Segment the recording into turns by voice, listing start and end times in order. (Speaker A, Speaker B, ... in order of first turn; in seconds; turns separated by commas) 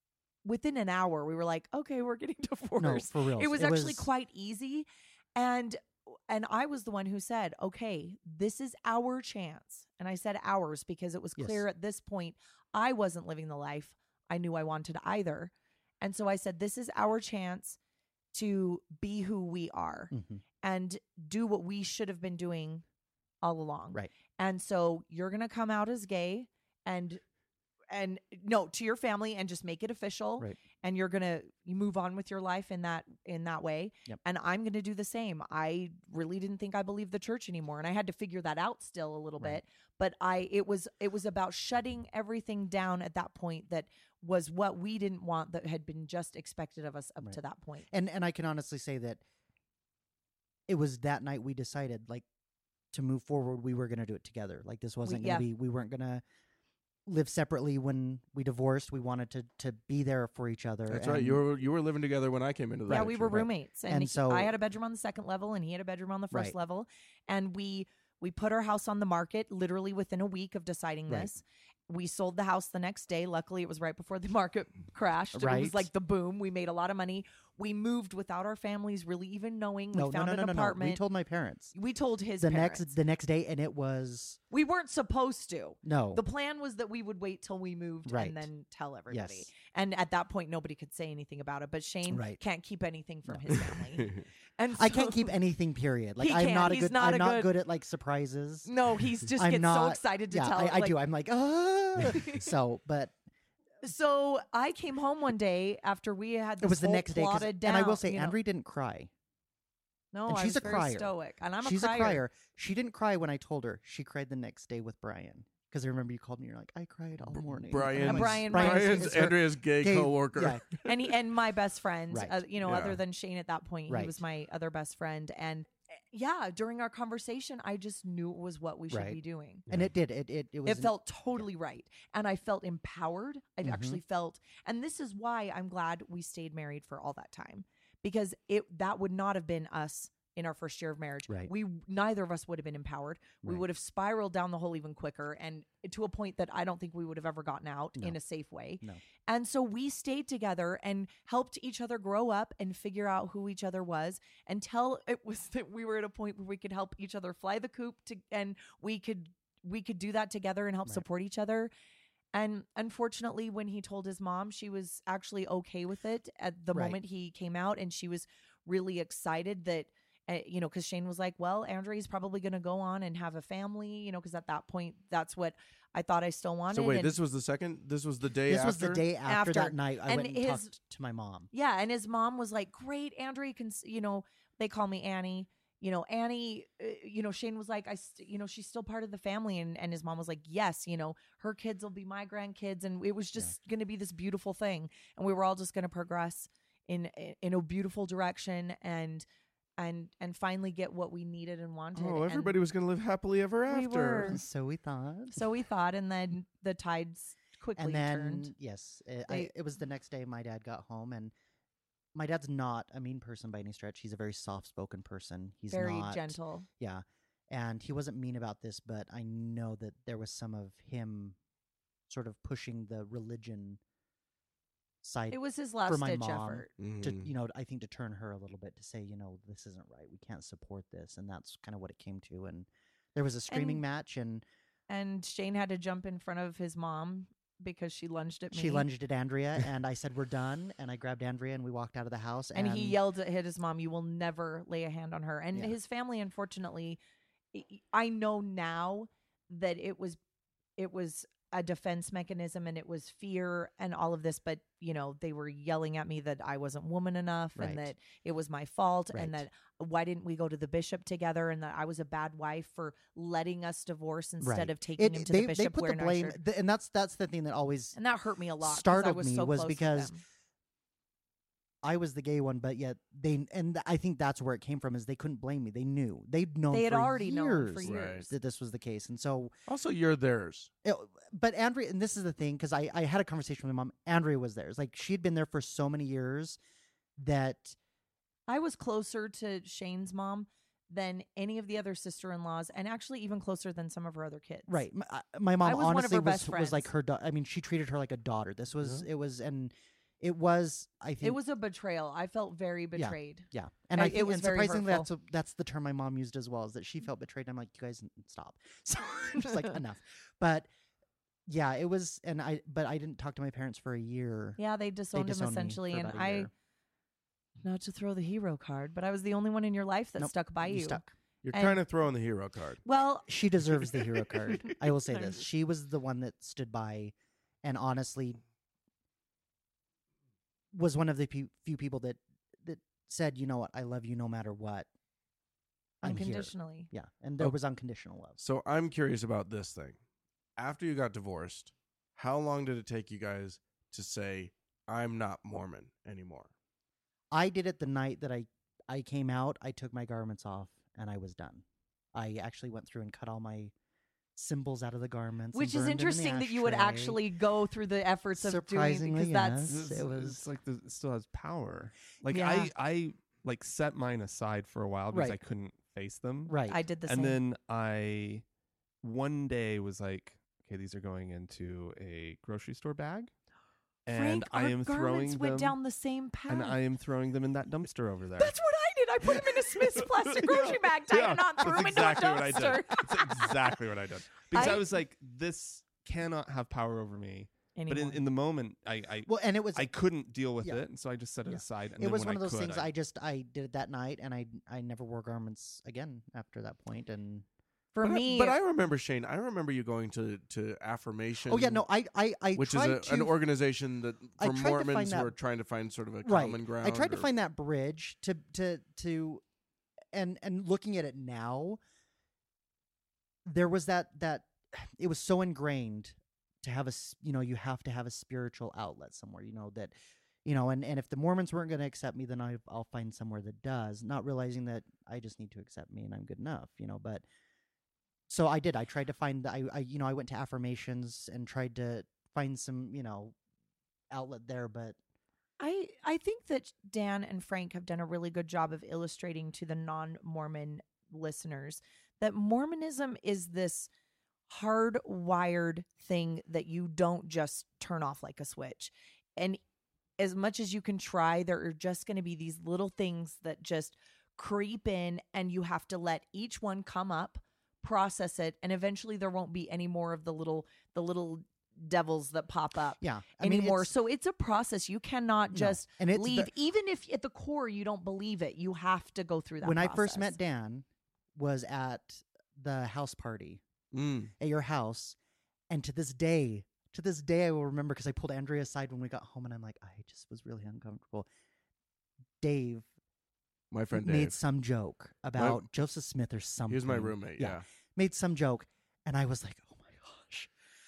Speaker A: 0.4-17.8, Speaker B: 2.8-4.1, Speaker B: 11.4-11.6, Speaker A: 18.3-22.8, Speaker B: 20.1-20.4, Speaker A: 23.4-27.2, Speaker A: 27.9-47.9, Speaker B: 47.9-49.2, Speaker B: 50.7-52.2, Speaker B: 52.9-56.2, Speaker A: 55.0-55.5, Speaker B: 57.0-61.4, Speaker C: 60.9-63.4, Speaker B: 62.9-64.5, Speaker A: 62.9-81.0, Speaker B: 75.3-75.9, Speaker B: 79.9-81.7, Speaker A: 81.7-83.0, Speaker B: 82.4-84.4, Speaker A: 84.5-95.4, Speaker B: 85.8-86.2, Speaker B: 88.1-88.4, Speaker B: 89.1-89.5, Speaker B: 92.1-92.4, Speaker B: 93.3-94.1, Speaker B: 94.7-103.2, Speaker A: 96.2-97.5, Speaker A: 98.7-101.0, Speaker A: 102.0-102.5, Speaker A: 103.8-108.4, Speaker B: 106.6-109.1, Speaker A: 110.1-112.2, Speaker B: 110.3-120.8, Speaker C: 117.3-120.7, Speaker A: 118.0-119.3, Speaker A: 120.8-129.7, Speaker B: 122.1-122.4, Speaker C: 122.6-123.0, Speaker B: 123.9-124.2, Speaker B: 128.9-131.4, Speaker A: 130.6-161.7, Speaker B: 133.6-134.0, Speaker A: 162.3-177.1, Speaker B: 166.7-167.0, Speaker C: 176.7-179.1, Speaker B: 178.4-181.5, Speaker A: 179.2-180.8, Speaker A: 181.5-199.3, Speaker A: 199.8-202.6, Speaker C: 201.9-204.4, Speaker A: 203.7-204.4, Speaker B: 204.3-205.4, Speaker A: 205.3-208.5, Speaker B: 207.8-211.3, Speaker B: 212.1-221.3, Speaker A: 215.7-216.7, Speaker B: 222.1-223.8, Speaker B: 225.0-234.4, Speaker A: 225.3-226.7, Speaker C: 226.8-227.3, Speaker A: 233.5-233.8, Speaker A: 234.9-238.9, Speaker B: 238.5-243.0, Speaker A: 242.5-247.0, Speaker A: 247.5-250.2, Speaker A: 250.8-266.4, Speaker B: 257.6-257.9, Speaker B: 259.1-259.4, Speaker B: 264.4-268.0, Speaker A: 267.9-270.2, Speaker B: 268.6-270.1, Speaker B: 271.8-279.5, Speaker A: 276.7-278.3, Speaker C: 277.8-278.3, Speaker C: 279.7-280.7, Speaker B: 280.8-286.6, Speaker B: 287.2-287.8, Speaker A: 288.5-294.9, Speaker B: 294.7-301.4, Speaker A: 295.6-296.9, Speaker A: 301.2-305.1, Speaker B: 302.9-310.7, Speaker B: 311.5-314.6, Speaker A: 314.6-316.5, Speaker B: 315.1-316.5, Speaker A: 317.6-321.8, Speaker B: 320.2-321.1, Speaker C: 321.4-322.8, Speaker A: 322.9-325.4, Speaker B: 323.3-328.4, Speaker B: 330.7-334.9, Speaker A: 336.0-336.9, Speaker B: 336.0-338.4, Speaker C: 338.4-340.0, Speaker C: 340.6-346.5, Speaker B: 347.3-353.7, Speaker B: 354.4-357.2, Speaker A: 355.5-360.0, Speaker B: 358.4-360.4, Speaker D: 359.6-368.4, Speaker A: 362.3-362.7, Speaker B: 365.1-365.4, Speaker B: 366.5-366.8, Speaker A: 366.7-367.4, Speaker D: 369.0-373.3, Speaker D: 374.1-375.8, Speaker A: 374.1-376.8, Speaker D: 376.5-378.6, Speaker A: 378.4-383.7, Speaker D: 379.2-392.9, Speaker A: 384.5-384.9, Speaker A: 387.7-388.2, Speaker B: 389.2-389.9, Speaker B: 391.5-397.4, Speaker A: 397.9-398.6, Speaker C: 398.0-401.9, Speaker B: 401.5-403.4, Speaker C: 402.6-407.3, Speaker B: 404.4-405.3, Speaker B: 406.2-409.4, Speaker B: 410.1-411.8, Speaker B: 413.4-427.2, Speaker B: 428.3-433.4, Speaker B: 434.1-435.0, Speaker A: 435.6-443.9, Speaker A: 444.5-449.6, Speaker A: 450.2-470.4, Speaker B: 463.0-463.9, Speaker B: 465.5-466.5, Speaker B: 469.6-473.6, Speaker C: 473.9-474.3, Speaker B: 474.4-475.2, Speaker B: 475.7-481.3, Speaker B: 482.4-482.9, Speaker C: 483.7-484.4, Speaker B: 483.9-490.5, Speaker C: 485.4-485.6, Speaker C: 486.7-487.6